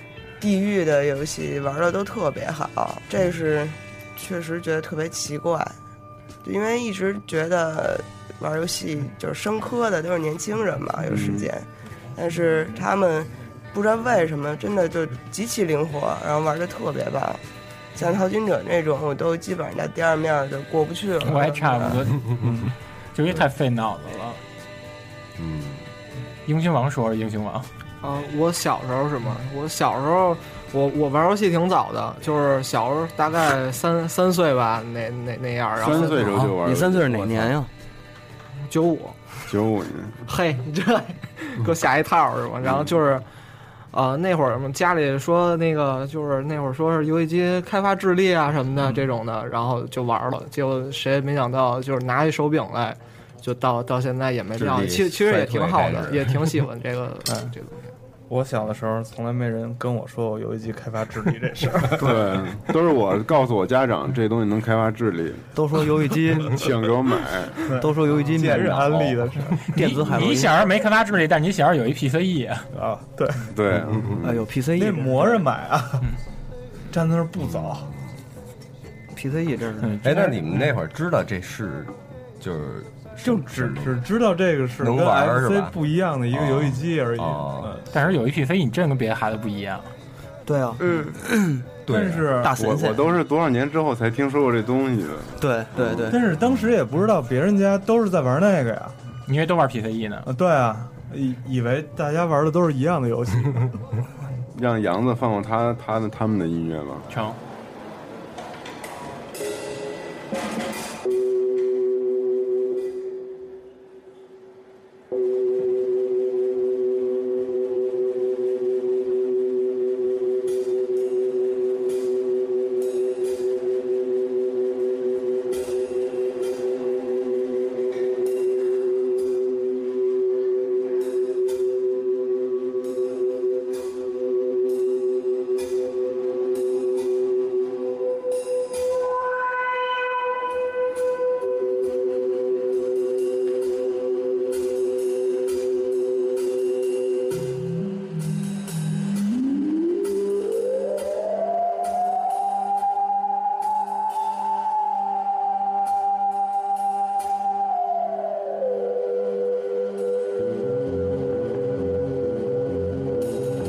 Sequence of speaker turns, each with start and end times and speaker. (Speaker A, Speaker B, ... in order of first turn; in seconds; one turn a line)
Speaker A: 0.4-5.8
Speaker A: 6.4-17.4
Speaker B: 11.1-11.5
Speaker A: 18.0-21.9
Speaker C: 21.2-22.5
Speaker C: 23.1-24.4
Speaker D: 25.4-25.9
Speaker C: 26.5-27.7
Speaker E: 28.0-36.3
Speaker B: 35.8-37.5
Speaker F: 36.0-37.7
Speaker E: 38.7-39.5
Speaker B: 39.5-40.2
Speaker E: 40.3-43.2
Speaker B: 42.6-42.9
Speaker E: 43.9-57.9
Speaker D: 54.6-56.5
Speaker G: 58.3-62.5
Speaker B: 62.0-65.5
Speaker F: 65.5-66.6
Speaker B: 66.5-67.7
Speaker G: 67.7-69.7
Speaker F: 67.8-68.9
Speaker D: 68.4-69.3
Speaker C: 69.7-72.7
Speaker F: 69.7-70.6
Speaker G: 72.7-73.5
Speaker B: 73.5-74.4
Speaker F: 74.2-75.5
Speaker G: 74.7-76.1
Speaker G: 76.9-77.9
Speaker D: 77.4-78.0
Speaker F: 79.1-80.0
Speaker C: 79.8-80.6
Speaker D: 80.0-84.0
Speaker G: 83.2-87.9
Speaker D: 84.8-85.8
Speaker D: 86.3-87.7
Speaker C: 87.9-89.9
Speaker F: 90.5-91.7
Speaker A: 90.8-91.2
Speaker D: 91.9-92.3
Speaker G: 91.9-92.5
Speaker F: 92.4-93.2
Speaker B: 92.6-96.1
Speaker F: 95.4-96.2
Speaker G: 96.1-99.0
Speaker C: 99.3-100.3
Speaker G: 100.2-103.8
Speaker B: 104.5-107.1
Speaker C: 107.1-107.4